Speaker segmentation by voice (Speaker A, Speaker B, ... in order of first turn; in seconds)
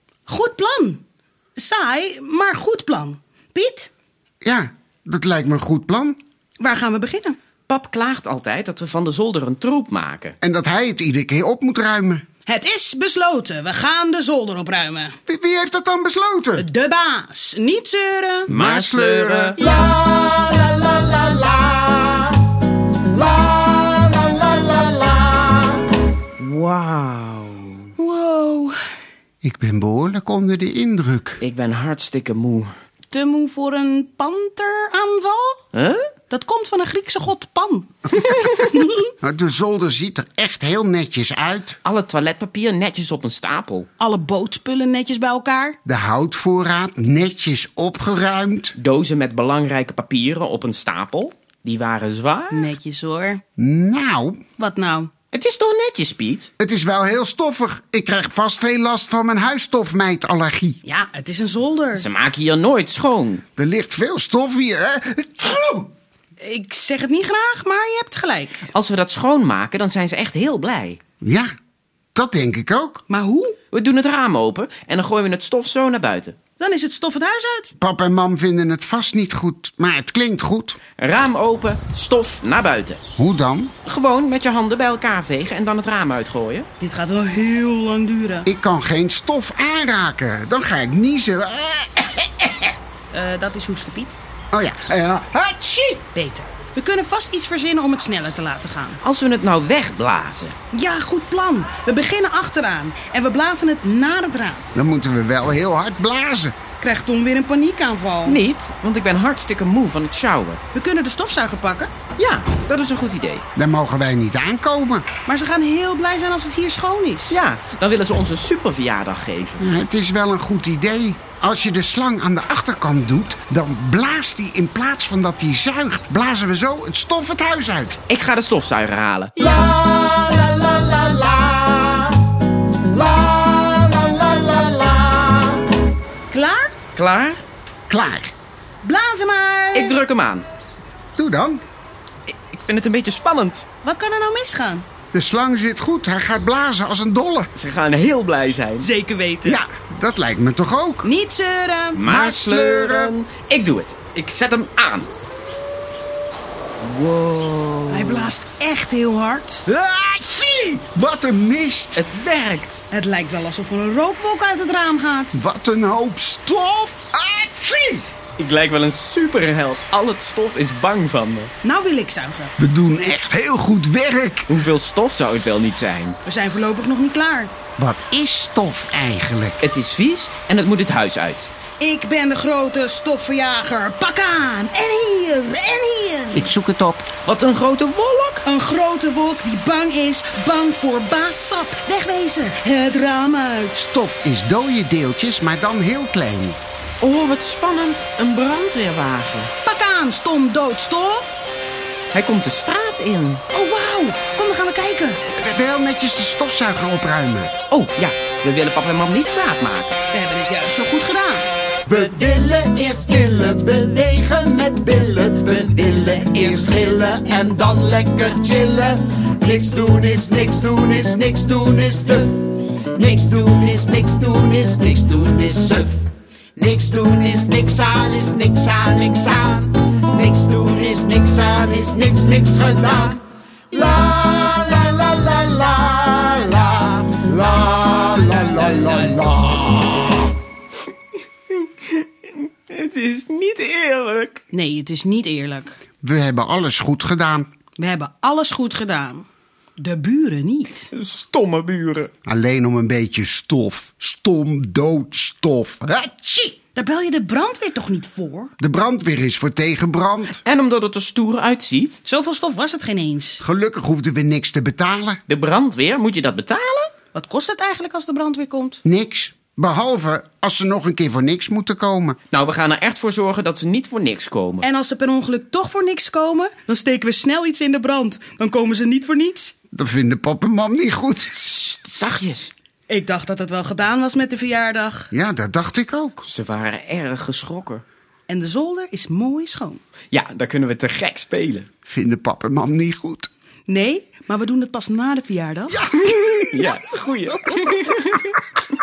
Speaker A: 0.3-1.0, 1.6-3.9, 6.6-7.4, 12.5-15.2, 16.6-18.5, 28.0-28.8, 33.1-35.6, 36.3-39.1, 44.0-45.8, 52.5-53.4, 54.6-55.1, 60.8-62.1, 66.4-68.6, 73.1-73.5, 76.6-77.7, 86.8-88.5, 93.1-94.2, 96.1-99.0, 100.7-104.7, 106.8-108.4, 110.7-111.9, 115.2-117.4, 136.3-136.8, 138.8-140.0, 143.8-144.9, 148.8-149.6, 151.0-152.0, 157.9-159.7, 162.9-165.4, 171.6-172.6, 176.2-177.5, 181.8-186.5, 188.4-193.9, 199.6-201.3, 203.5-205.2, 210.1-211.5, 244.5-245.8, 247.8-249.2, 249.8-250.9, 256.8-258.5, 262.0-263.4, 267.1-268.8, 274.6-279.5, 282.9-285.1, 288.3-289.8, 293.7-295.9
Speaker B: 4.4-6.2, 10.4-12.2, 15.3-16.7, 18.5-19.6, 29.4-31.4, 39.2-41.8, 45.9-48.8, 53.6-54.4, 56.6-60.8, 63.6-65.9, 71.2-71.5, 72.2-73.0, 77.8-80.8, 83.2-83.7, 88.5-92.7, 94.5-96.0, 104.8-106.5, 113.5-115.0, 119.6-128.0, 137.9-138.3, 141.2-141.6, 145.1-147.5, 149.4-151.1, 152.1-153.2, 159.7-162.0, 165.3-168.1, 172.6-174.5, 177.8-179.6, 186.3-187.1, 193.9-196.6, 205.3-207.5, 246.0-247.5, 252.2-256.6, 258.6-260.4, 263.4-265.2, 268.9-272.2, 279.7-281.3, 285.1-286.2, 291.9-293.3, 295.9-296.7
Speaker C: 7.7-10.3, 18.5-19.6, 26.4-27.9, 31.4-32.7, 35.7-36.1, 41.9-43.9, 48.8-52.7, 55.3-56.5, 61.9-63.4, 68.7-71.0, 73.7-76.4, 81.0-83.0, 83.8-86.7, 99.0-100.5, 108.2-110.6, 112.2-113.4, 117.3-119.6, 128.1-129.6, 137.0-137.4, 139.8-140.5, 142.3-143.7, 147.6-148.9, 151.9-155.1, 156.8-158.3, 162.0-162.8, 168.4-171.5, 174.5-176.2, 179.6-181.5, 187.2-188.4, 197.0-199.5, 202.1-203.4, 207.7-209.9, 215.6-216.0, 241.5-244.4, 250.9-252.1, 260.4-262.0, 265.3-266.9, 272.3-274.6, 281.3-282.5, 286.2-287.8, 290.1-291.7, 296.0-298.4
Speaker D: 19.9-20.7, 21.4-21.8, 211.9-222.4, 222.9-226.0, 226.6-231.4, 231.9-233.2, 233.7-238.7